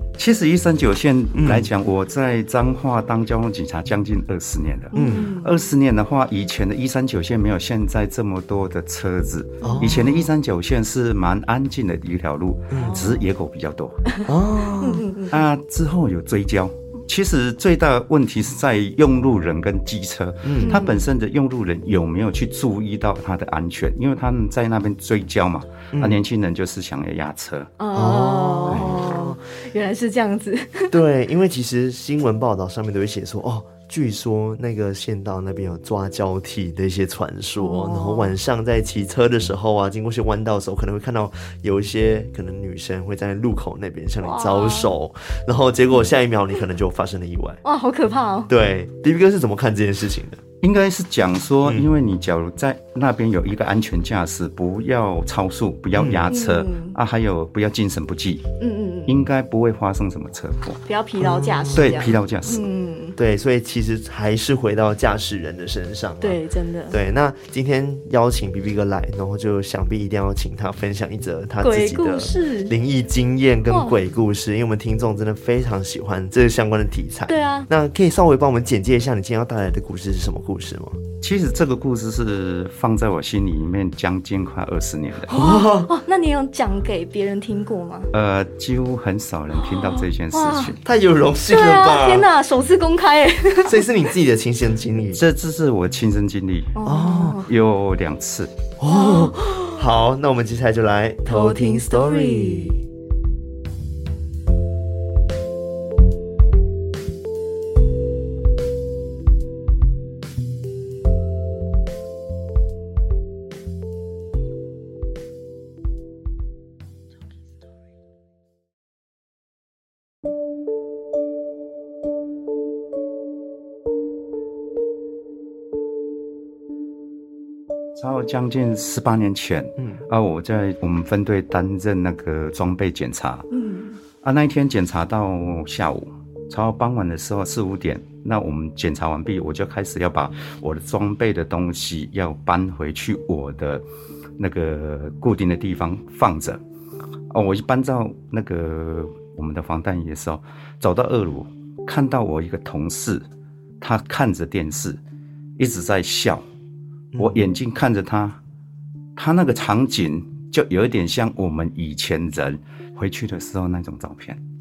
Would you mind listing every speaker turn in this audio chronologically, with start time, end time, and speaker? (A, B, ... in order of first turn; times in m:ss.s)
0:00.2-0:14.1 A
0:01.3-0:01.7 B
0:04.9-0:05.5 C
0:04.9-0:05.3 B
0:09.6-0:10.0 C
0:09.6-0:10.3 B
0:12.7-0:13.0 B
0:12.7-0:13.3 C
0:14.3-0:15.1 B
0:14.8-0:15.3 C
0:15.3-0:27.7 A
0:20.4-0:20.8 B
0:20.6-0:21.0 C
0:25.9-0:26.2 B
0:27.8-0:31.0 C
0:27.9-0:29.4 B
0:30.9-0:47.6 B
0:37.6-0:38.3 C
0:44.2-0:44.9 C
0:47.6-0:48.5 C
0:48.5-0:50.4 B
0:50.6-0:58.4 A
0:56.0-0:56.3 B
0:56.3-0:57.0 C
0:58.6-0:59.2 C
0:59.1-1:00.8 A
1:00.8-1:03.2 C
1:01.2-1:02.2 B
1:01.7-1:02.7 A
1:03.2-1:21.0 B
1:06.2-1:07.0 C
1:11.6-1:12.7 C
1:13.7-1:13.9 C
1:17.3-1:17.7 C
1:21.2-1:25.3 A
1:25.3-1:25.9 B
1:25.3-1:28.1 C
1:28.1-1:30.8 A
1:29.6-1:30.7 C
1:30.8-1:32.3 B
1:31.5-1:33.8 C
1:33.6-1:35.2 B
1:35.1-1:36.8 A
1:36.8-1:37.5 C
1:36.8-1:37.4 B
1:37.4-1:38.5 A
1:38.8-1:42.8 B
1:38.9-1:39.8 C
1:41.2-1:42.8 C
2:08.0-2:13.5 A
2:13.5-2:14.0 C
2:14.2-2:23.8 A
2:24.4-2:26.6 A
2:27.3-2:33.2 A
2:33.8-2:35.0 A
2:35.6-2:36.4 A
2:37.1-2:37.4 B
2:37.2-2:38.4 A
2:39.2-2:44.4 A